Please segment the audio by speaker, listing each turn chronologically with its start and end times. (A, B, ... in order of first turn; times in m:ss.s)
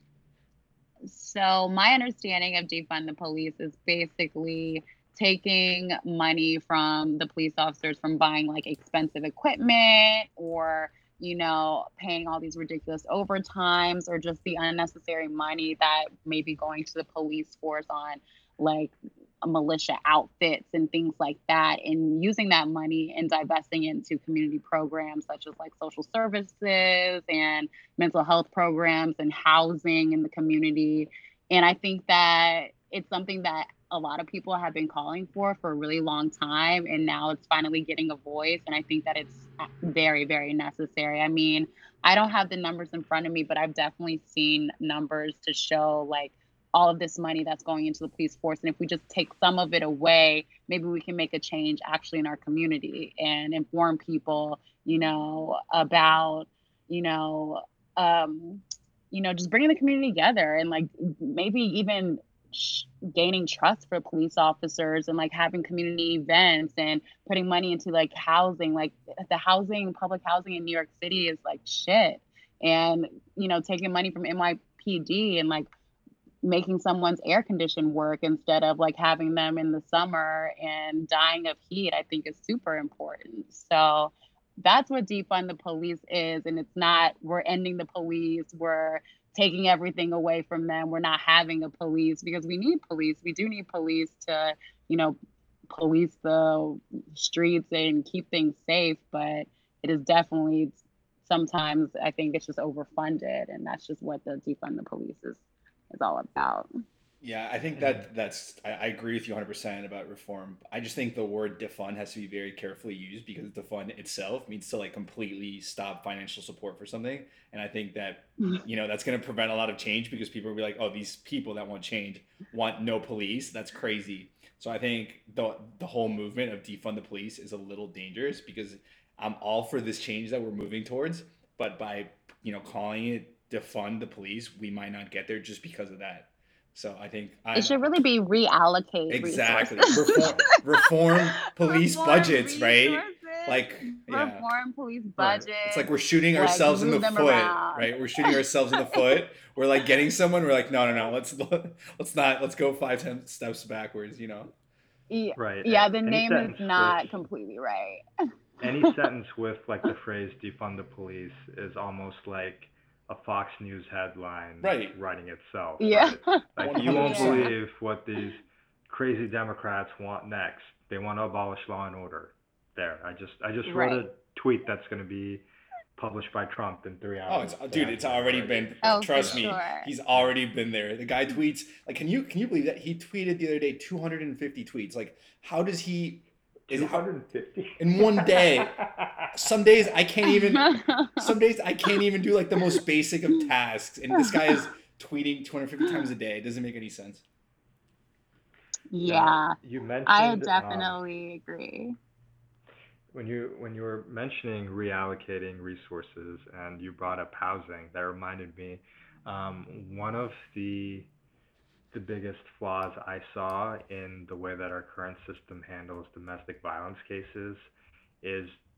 0:01.0-1:15.7 A
1:16.4-1:35.2 A
1:35.7-1:46.7 A
1:47.2-2:17.9 B
2:17.5-2:20.7 A
2:19.1-2:24.5 B
2:19.9-2:20.5 C
2:21.4-2:29.2 A
2:25.2-2:25.5 C
2:25.6-2:34.5 B
2:35.1-2:38.0 A
2:35.4-2:37.1 C
2:38.6-2:55.4 C
2:44.6-2:45.0 B
2:45.8-2:47.5 A
2:46.6-2:47.5 B
2:53.6-2:54.0 A
2:56.0-2:59.6 C
2:57.3-3:07.0 B
2:58.8-2:59.9 A
3:06.7-3:09.5 C
3:07.8-3:08.8 B
3:09.3-3:17.2 B
3:10.3-3:11.3 A
3:14.1-3:14.6 A
3:18.9-3:22.0 A
3:19.0-3:21.0 C
3:23.1-3:31.1 C
3:31.9-3:37.7 C
3:38.2-3:38.6 C